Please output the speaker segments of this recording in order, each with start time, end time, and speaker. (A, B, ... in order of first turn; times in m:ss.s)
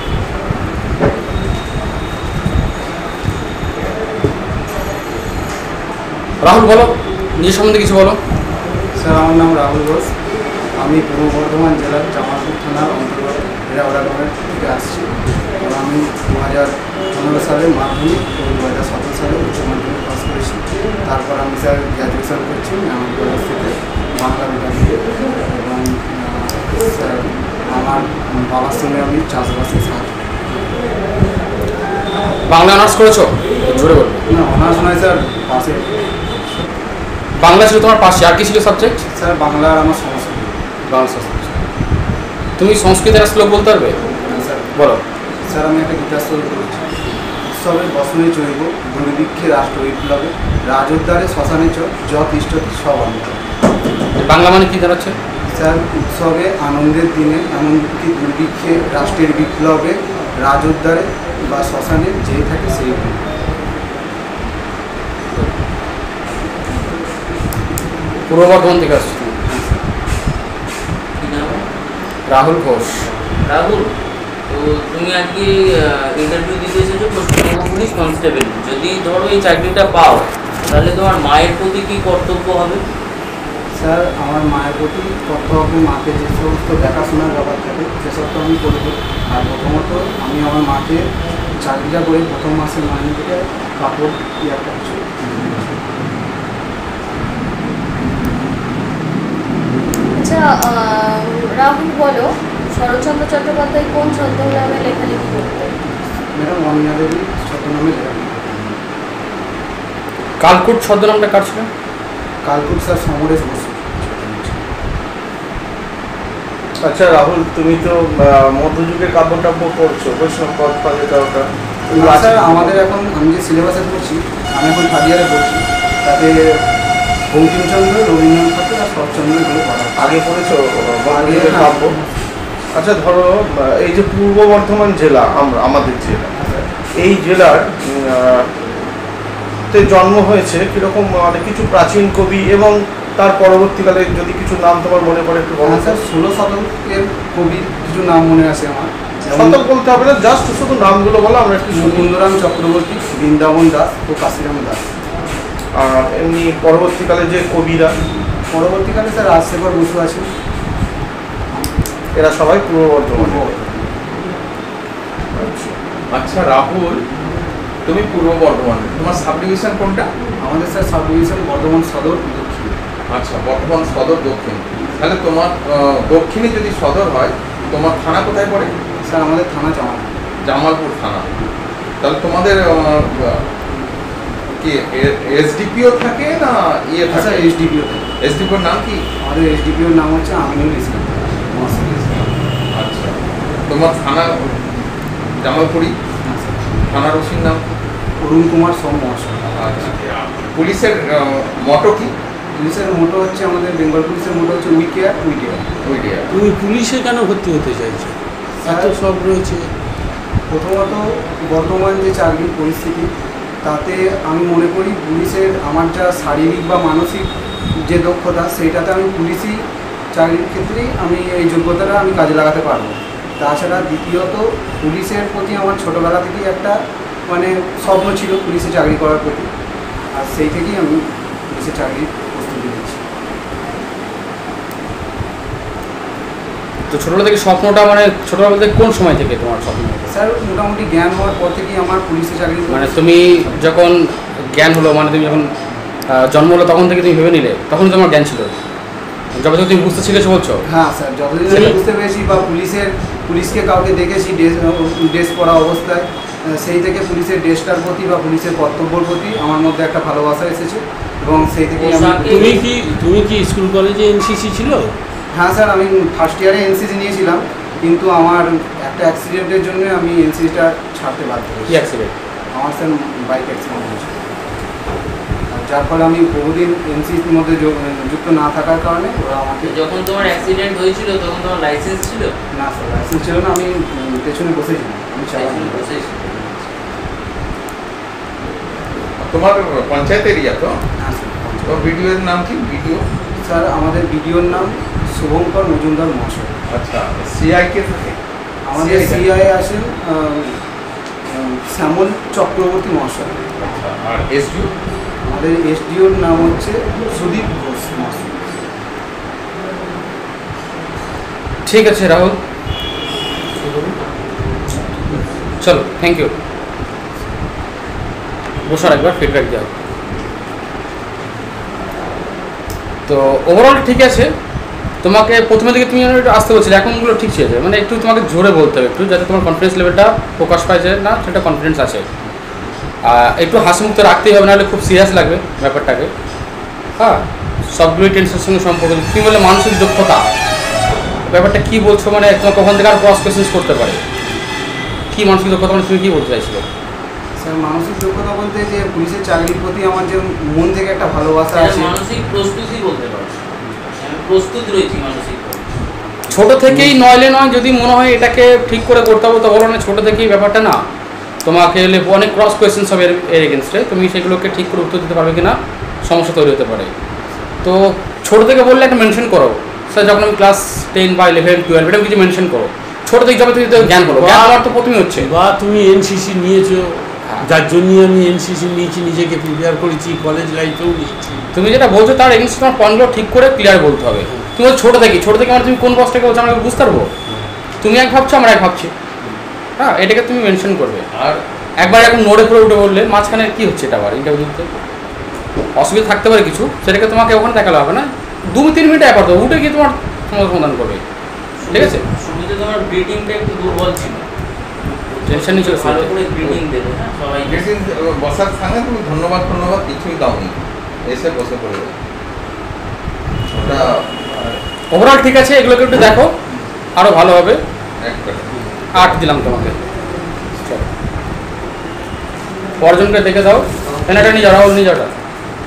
0:06.4-0:08.2 A
0:09.0-0:10.1 B
0:10.8-0:30.5 B
0:32.5-0:34.2 A
0:34.3-0:36.6 B
0:37.4-0:39.0 A
0:39.1-0:40.6 B
0:40.9-0:41.6 A
0:42.6-0:44.0 A
0:44.1-0:44.8 B
0:44.8-0:45.0 A
0:45.4-0:46.8 B
0:47.5-0:53.4 B
0:54.2-0:55.2 A
0:55.5-1:03.2 B
1:08.3-1:09.4 A
1:09.5-1:09.8 B
1:11.2-1:11.6 C
1:12.3-1:13.0 A
1:13.4-1:13.9 C
1:14.5-1:22.8 C
1:23.8-1:31.1 B
1:31.6-1:35.5 B
1:40.2-1:45.8 D
1:46.3-1:48.8 B
1:50.4-1:51.7 A
1:52.4-1:54.6 B
1:56.8-2:02.8 E
2:01.9-2:06.6 B
2:07.3-2:10.2 B
2:10.0-2:12.0 E
2:11.1-2:12.0 B
2:12.7-2:16.3 E
2:16.3-2:16.7 B
2:17.0-2:18.5 E
2:19.7-2:26.0 E
2:25.6-2:29.6 B
2:29.3-2:32.1 E
2:31.7-2:34.8 B
2:35.8-2:37.9 E
2:38.5-2:40.3 B
2:42.2-2:43.5 E
2:43.2-2:43.9 B
2:46.1-2:47.0 F
2:47.9-2:50.1 F
2:50.4-2:52.8 B
2:53.1-2:58.7 F
2:59.0-3:00.2 B
3:00.4-3:01.3 F
3:02.0-3:03.4 F
3:04.6-3:07.5 F
3:07.1-3:08.1 B
3:08.2-3:09.0 F
3:09.2-3:12.4 B
3:12.7-3:13.2 F
3:13.7-3:14.7 F
3:15.4-3:16.0 F
3:16.2-3:16.7 B
3:16.8-3:17.6 F
3:18.2-3:19.9 B
3:19.5-3:22.1 F
3:22.6-3:25.7 B
3:25.8-3:26.3 F
3:26.3-3:29.7 G
3:28.6-3:28.9 B
3:30.5-3:33.1 B
3:33.6-3:37.3 B
3:37.8-3:39.6 B
3:40.1-3:49.5 B
3:50.1-3:53.0 B
3:56.9-4:00.1 A
4:00.1-4:03.0 B
4:02.7-4:05.5 A
4:06.1-4:08.6 A
4:09.4-4:10.6 A
4:10.7-4:22.6 B
4:11.5-4:11.8 A
4:21.8-4:22.6 C
4:22.2-4:25.0 G
4:25.3-4:31.8 B
4:31.7-4:32.1 A
4:32.5-4:34.2 B
4:35.5-4:40.5 B
4:39.6-4:42.3 C
4:42.5-4:46.9 B
4:45.3-4:46.4 C
4:49.2-4:50.8 F
4:51.0-4:52.1 B
4:51.6-4:53.0 F
4:53.4-4:56.6 B
4:56.7-4:58.2 F
4:58.6-5:00.6 B
4:58.7-4:59.3 F
5:01.3-5:03.4 B
5:03.6-5:04.7 F
5:05.2-5:08.6 B
5:11.7-5:12.4 A
5:15.6-5:16.3 A
5:18.7-5:19.7 A
5:23.1-5:24.3 A
5:25.0-5:32.1 A
5:33.0-5:36.1 A
5:37.0-5:40.2 A
5:41.3-5:44.0 A
5:45.1-5:46.6 A
5:47.4-5:52.0 B
5:51.5-5:53.4 C
5:54.0-5:55.7 C
5:56.3-6:00.8 A
6:01.4-6:06.9 A
6:07.6-6:15.3 A
6:13.8-6:21.5 G
6:17.2-6:17.5 A
6:21.5-6:27.1 A
6:27.8-6:28.9 A
6:29.8-6:31.1 A
6:31.1-6:32.1 F
6:31.8-6:34.7 A
6:35.8-6:41.0 A
6:41.6-6:44.3 C
6:41.7-6:42.0 A
6:44.8-6:47.7 C
6:45.3-6:46.1 A
6:47.4-6:52.0 F
6:53.5-6:54.6 F
6:54.9-6:56.3 A
6:57.0-6:57.6 A
6:58.0-6:58.5 F
6:58.9-6:59.8 A
7:00.6-7:00.9 A
7:02.8-7:05.1 A